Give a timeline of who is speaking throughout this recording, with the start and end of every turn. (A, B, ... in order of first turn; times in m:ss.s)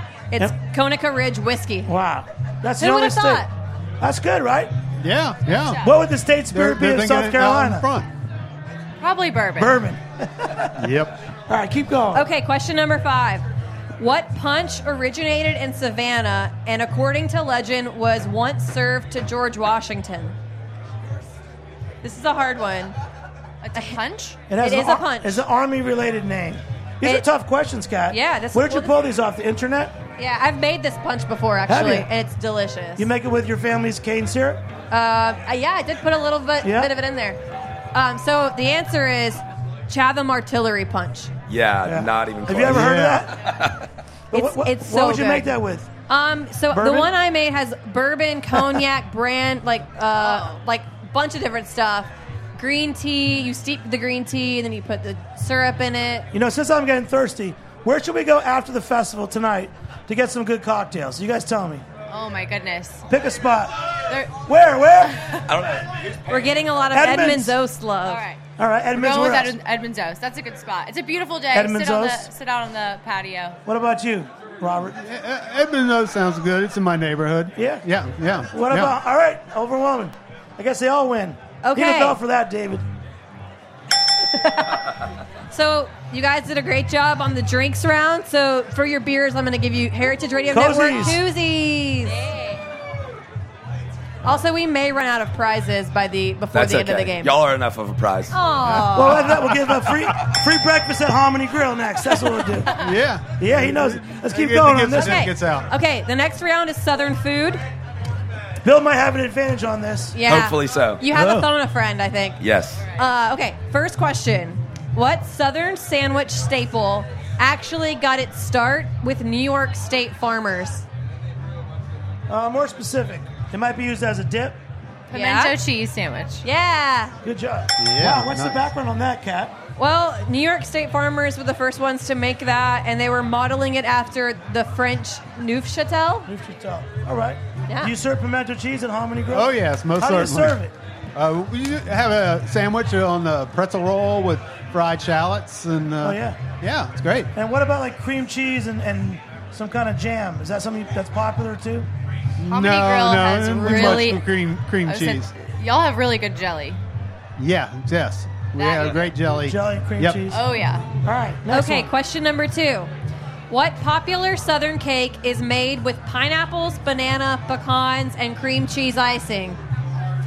0:00.3-0:01.9 A
0:01.9-0:03.5 B
0:02.8-0:03.5 A
0:04.0-0:04.7 B
0:05.0-0:05.8 C
0:05.5-0:06.0 D
0:05.8-0:07.9 B
0:06.5-0:08.1 C
0:09.0-0:09.8 D
0:09.6-0:10.8 B
0:10.8-0:11.2 C
0:11.5-0:12.3 B
0:12.1-0:13.4 A
0:14.0-0:20.4 A
0:22.0-0:22.9 A
0:23.6-0:24.4 D
0:24.5-0:29.9 B
0:24.6-0:25.4 A
0:27.0-0:27.3 A
0:28.1-0:29.0 A
0:30.2-0:33.1 A
0:31.7-0:32.1 B
0:33.0-0:34.6 B
0:34.9-0:37.4 A
0:36.6-0:36.9 B
0:37.9-0:41.3 A
0:41.5-0:43.8 E
0:41.9-0:43.4 B
0:42.6-0:43.3 C
0:44.3-0:45.9 B
0:44.3-0:45.5 A
0:46.1-0:56.3 A
0:46.7-0:47.1 B
0:50.2-0:50.6 D
0:56.3-1:01.8 B
1:02.1-1:03.1 D
1:03.1-1:03.8 B
1:04.1-1:04.3 D
1:04.4-1:05.3 B
1:05.5-1:06.5 E
1:06.3-1:08.2 A
1:06.9-1:07.6 B
1:08.0-1:08.4 D
1:08.6-1:09.5 B
1:08.9-1:13.6 D
1:11.5-1:12.3 B
1:13.6-1:15.0 B
1:15.0-1:19.0 C
1:17.6-1:17.8 B
1:18.5-1:22.8 B
1:21.6-1:22.2 A
1:24.4-1:24.8 A
1:25.5-1:32.2 A
1:30.5-1:31.2 B
1:32.1-1:32.6 D
1:34.2-1:37.4 A
1:36.5-1:38.4 E
1:38.3-1:39.4 A
1:38.6-1:39.9 C
1:38.9-1:42.8 B
1:42.7-1:45.7 C
1:43.4-1:45.3 B
1:44.9-1:47.6 A
1:48.6-1:50.2 B
1:50.1-1:52.4 A
1:50.3-1:51.0 E
1:51.1-1:51.5 C
1:52.4-1:52.8 E
1:53.0-2:00.8 A
2:02.3-2:04.6 B
2:05.1-2:06.4 D
2:05.1-2:05.6 A
2:06.4-2:07.1 A
2:07.2-2:09.6 B
2:07.8-2:08.6 C
2:09.8-2:16.3 A
2:16.3-2:20.7 B
2:17.7-2:17.9 A
2:19.3-2:20.6 C
2:21.1-2:27.3 C
2:26.0-2:26.4 B
2:27.4-2:31.9 B
2:32.4-2:35.3 C
2:32.5-2:36.8 D
2:37.4-2:40.3 C
2:38.6-2:39.1 D
2:39.4-2:40.4 B
2:40.3-2:40.9 D
2:41.0-2:41.9 B
2:41.5-2:42.9 A
2:43.5-2:49.6 A